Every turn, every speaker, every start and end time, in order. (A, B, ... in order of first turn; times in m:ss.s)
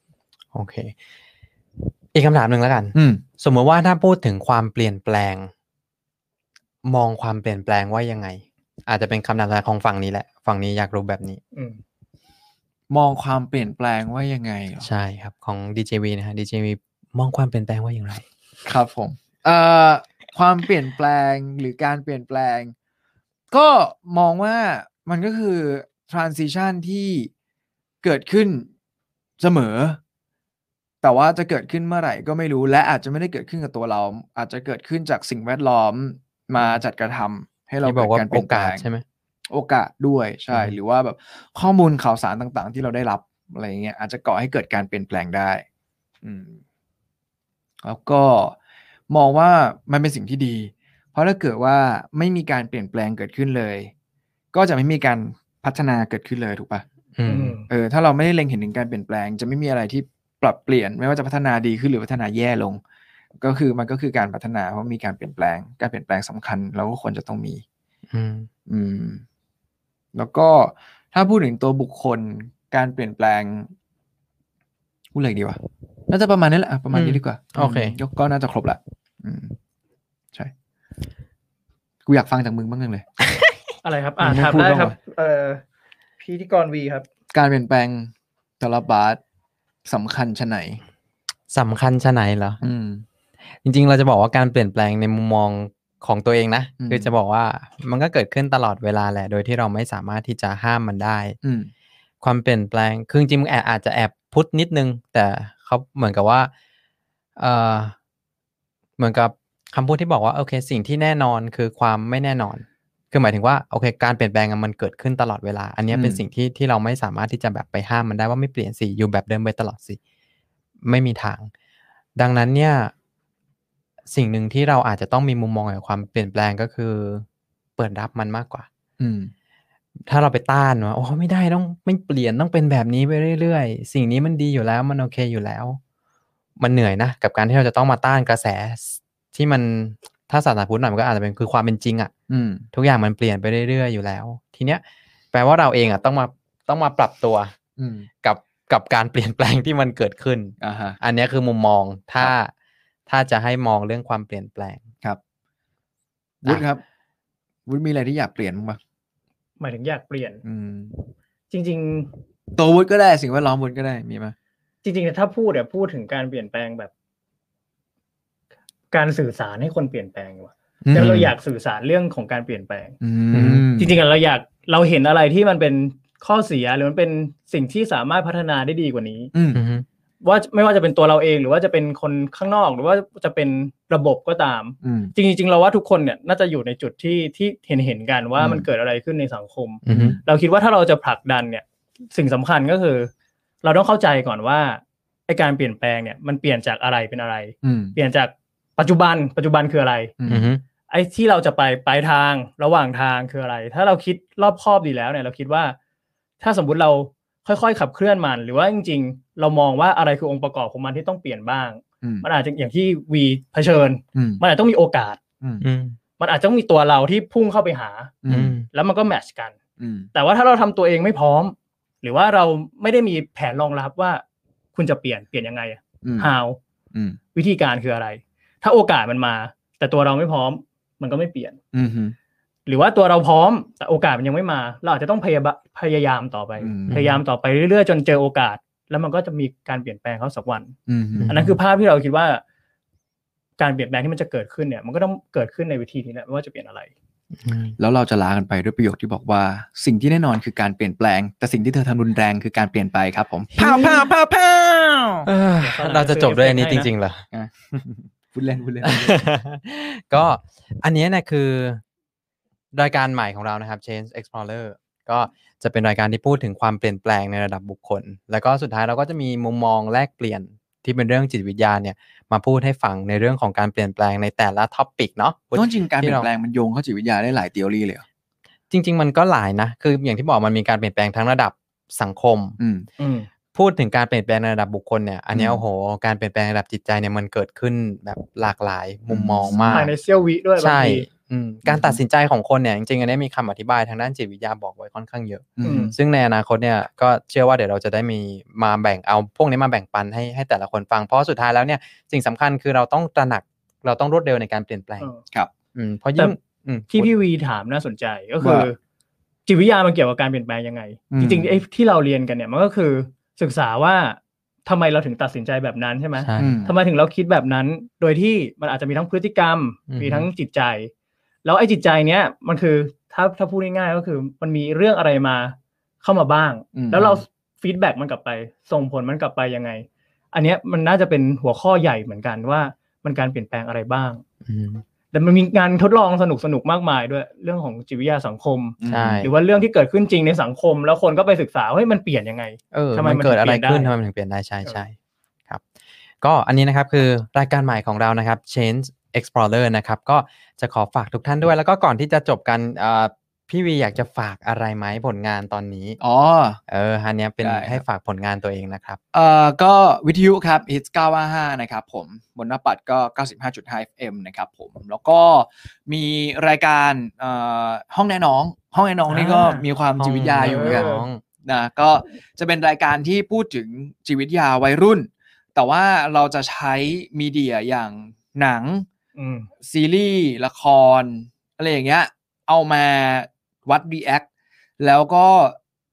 0:00.5-0:00.9 A
0:02.1-0:05.5 A
0:03.0-0:03.2 B
0:06.8-0:11.4 A
0:11.5-0:11.8 C
0:12.9-0:14.9 B
0:14.8-0:18.2 A
0:18.7-0:22.7 B
0:23.5-0:27.3 B
0:28.0-0:28.7 B
0:29.4-0:30.0 B
0:31.0-0:38.8 B
0:37.8-0:39.0 A
0:39.5-0:45.6 B
0:40.5-0:40.8 A
0:46.2-0:46.6 B
0:47.8-0:48.6 B
0:49.1-0:53.9 B
0:54.5-0:56.8 B
0:57.2-0:57.6 A
0:57.3-0:57.7 C
0:57.7-1:02.8 B
1:03.4-1:07.6 B
1:08.1-1:08.5 A
1:08.7-1:09.2 B
1:10.2-1:13.7 B
1:15.1-1:19.6 B
1:16.9-1:18.0 A
1:22.1-1:23.0 B
1:23.8-1:25.6 C
1:24.2-1:25.0 B
1:26.2-1:27.1 C
1:27.3-1:29.2 B
1:29.9-1:30.8 B
1:31.5-1:32.6 A
1:32.6-1:33.0 B
1:33.6-1:41.4 A
1:36.8-1:37.1 B
1:41.4-1:41.7 B
1:42.2-1:46.5 A
1:47.4-1:48.0 A
1:49.0-2:00.0 A
1:55.9-1:56.2 B
2:00.8-2:01.5 A
2:02.2-2:02.9 A
2:04.1-2:07.3 A
2:07.8-2:08.7 A
2:09.0-2:09.3 B
2:10.1-2:15.8 A
2:16.6-2:22.1 A
2:22.3-2:22.6 B
2:22.7-2:24.8 A
2:25.3-2:27.5 A
2:27.8-2:28.1 B
2:28.2-2:32.5 A
2:30.6-2:31.0 B
2:33.1-2:34.8 A
2:36.4-2:36.8 B
2:37.7-2:38.8 B
2:39.6-2:40.4 C
2:40.4-2:41.1 B
2:41.5-2:42.1 C
2:42.6-2:44.4 B
2:44.8-2:46.9 C
2:48.9-2:53.0 C
2:50.8-2:51.2 B
2:51.0-2:51.3 A
2:53.0-2:54.0 B
2:53.3-2:53.7 A
2:53.8-2:59.3 C
2:59.3-2:59.6 B
2:59.6-2:59.9 A
3:00.2-3:13.1 C
3:04.8-3:05.1 B
3:08.4-3:08.7 B
3:09.9-3:10.2 A
3:09.9-3:10.2 B
3:13.6-3:20.1 C
3:17.6-3:18.0 B
3:20.2-3:20.5 B
3:20.3-3:20.6 A
3:20.9-3:25.8 C
3:26.4-3:35.2 C
3:34.2-3:34.4 B
3:35.6-3:36.0 A
3:36.2-3:38.1 C
3:38.2-3:38.6 B
3:38.3-3:38.7 A
3:38.7-3:39.6 C
3:39.8-3:40.1 B
3:40.1-3:44.2 C
3:44.8-3:46.6 C
3:46.0-3:46.3 B
3:46.9-3:47.2 B
3:47.3-3:51.6 C
3:51.7-3:52.2 B
3:52.7-4:00.8 C
3:56.6-3:57.0 B
3:56.9-3:57.2 A
4:00.9-4:01.3 B
4:01.2-4:01.6 A
4:01.3-4:02.4 C
4:03.6-4:06.9 C
4:07.4-4:07.8 A
4:07.8-4:15.3 B
4:13.6-4:14.1 A
4:15.3-4:17.2 A
4:15.6-4:16.9 C
4:17.3-4:19.2 B
4:18.8-4:21.8 A
4:22.7-4:36.3 A
4:35.6-4:38.0 B
4:38.7-4:42.6 A
4:42.6-4:42.9 B
4:43.0-4:43.3 C
4:43.5-4:49.9 A
4:45.3-4:45.6 B
4:49.1-4:49.9 B
4:49.7-4:51.1 C
4:50.6-5:05.1 A
4:51.6-4:52.0 B
4:55.6-4:55.9 B
4:55.6-4:55.9 C
5:05.7-5:07.1 A
5:06.9-5:08.8 C
5:08.4-5:08.7 B
5:09.5-5:20.9 C
5:11.1-5:11.6 B
5:16.2-5:16.7 A
5:16.4-5:16.7 B
5:19.9-5:20.3 A
5:21.4-5:34.2 C
5:26.8-5:27.2 B
5:34.4-5:34.8 A
5:35.1-5:43.9 C
5:38.8-5:39.3 B
5:38.9-5:39.3 A
5:42.7-5:45.0 A
5:46.2-5:56.0 A
5:56.0-5:56.6 B
5:56.7-5:59.0 A
5:57.4-5:57.8 B
5:59.1-6:10.8 B
6:09.1-6:09.6 C
6:10.0-6:11.2 A
6:10.4-6:11.1 C
6:11.4-6:18.9 B
6:19.2-6:19.5 C
6:19.6-6:24.3 B
6:24.8-6:25.6 B